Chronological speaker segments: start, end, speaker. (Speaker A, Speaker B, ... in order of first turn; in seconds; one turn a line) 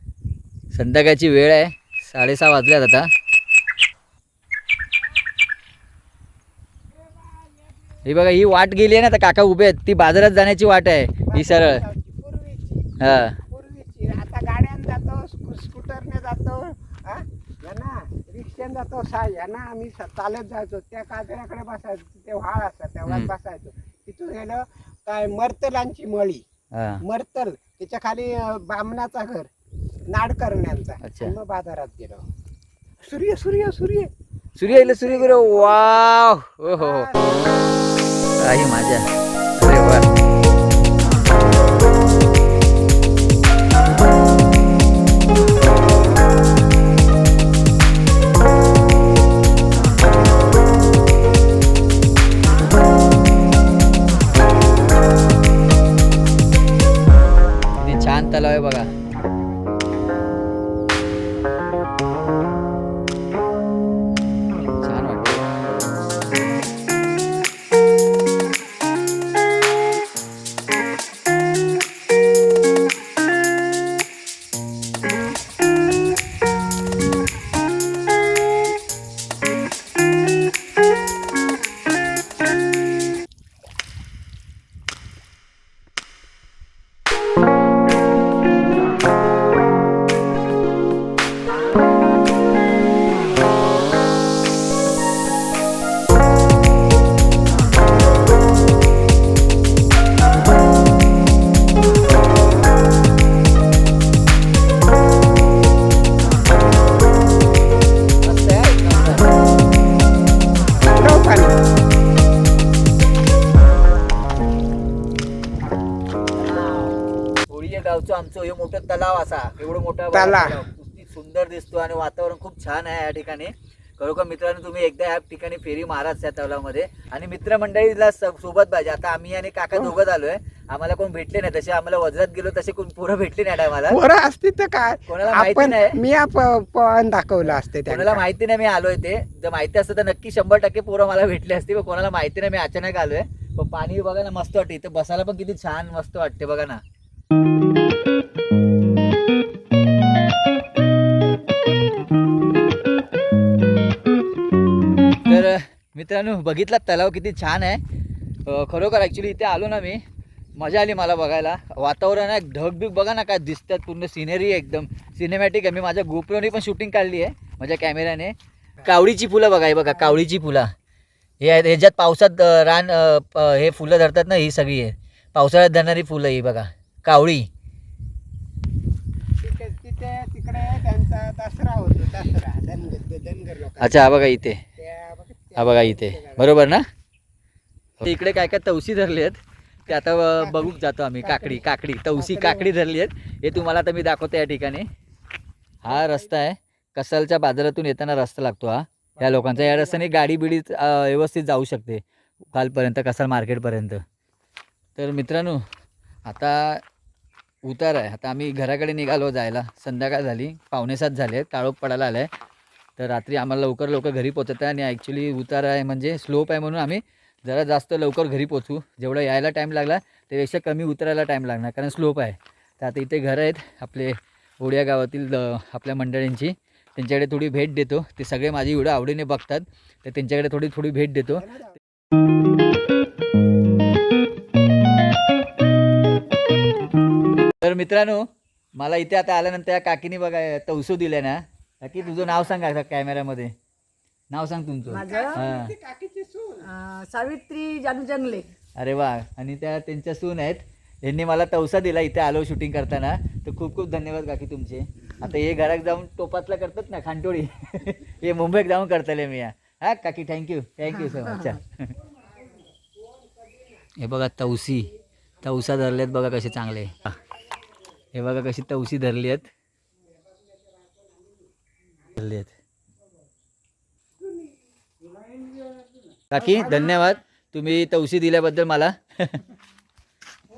Speaker A: 0.7-3.1
Speaker A: 8.1-11.8
Speaker B: 11.3-12.9
Speaker A: 13.0-13.4
Speaker B: 13.5-26.4
Speaker A: 26.7-27.0
Speaker B: 27.0-29.5
Speaker B: 30.1-32.2
Speaker A: 31.0-31.4
Speaker B: 33.0-34.1
Speaker A: 34.6-37.1
Speaker B: 34.6-36.0
Speaker B: 36.7-37.5
Speaker A: 38.4-39.1
Speaker A: 39.6-40.1
Speaker A: 57.8-58.9
Speaker A: 64.8-65.5
Speaker A: 108.2-109.4
Speaker B: 110.7-111.6
Speaker A: 116.4-134.0
Speaker B: 120.1-120.6
Speaker B: 133.8-138.2
Speaker A: 135.1-136.0
Speaker A: 137.9-146.8
Speaker A: 155.3-157.8
Speaker A: 158.5-160.0
Speaker A: 160.6-170.7
Speaker B: 169.9-170.2
Speaker A: 171.4-177.5
Speaker B: 179.4-184.1
Speaker A: 183.8-184.6
Speaker B: 184.8-186.8
Speaker A: 185.6-186.8
Speaker A: 188.0-194.9
Speaker B: 189.9-192.7
Speaker A: 195.8-202.0
Speaker B: 195.9-196.4
Speaker B: 199.2-200.1
Speaker A: 202.5-204.0
Speaker A: 205.0-205.6
Speaker A: 206.3-206.8
Speaker A: 207.7-212.3
Speaker A: 213.0-231.5
Speaker B: 231.4-231.8
Speaker A: 237.6-238.2
Speaker A: 238.8-243.5
Speaker A: 244.3-245.7
Speaker B: 244.9-246.8
Speaker C: 245.0-245.3
Speaker C: 246.7-248.5
Speaker A: 248.8-261.9
Speaker A: 264.0-267.2
Speaker A: 268.1-269.5
Speaker A: 272.1-272.5
Speaker C: 275.2-275.9
Speaker A: 276.3-279.4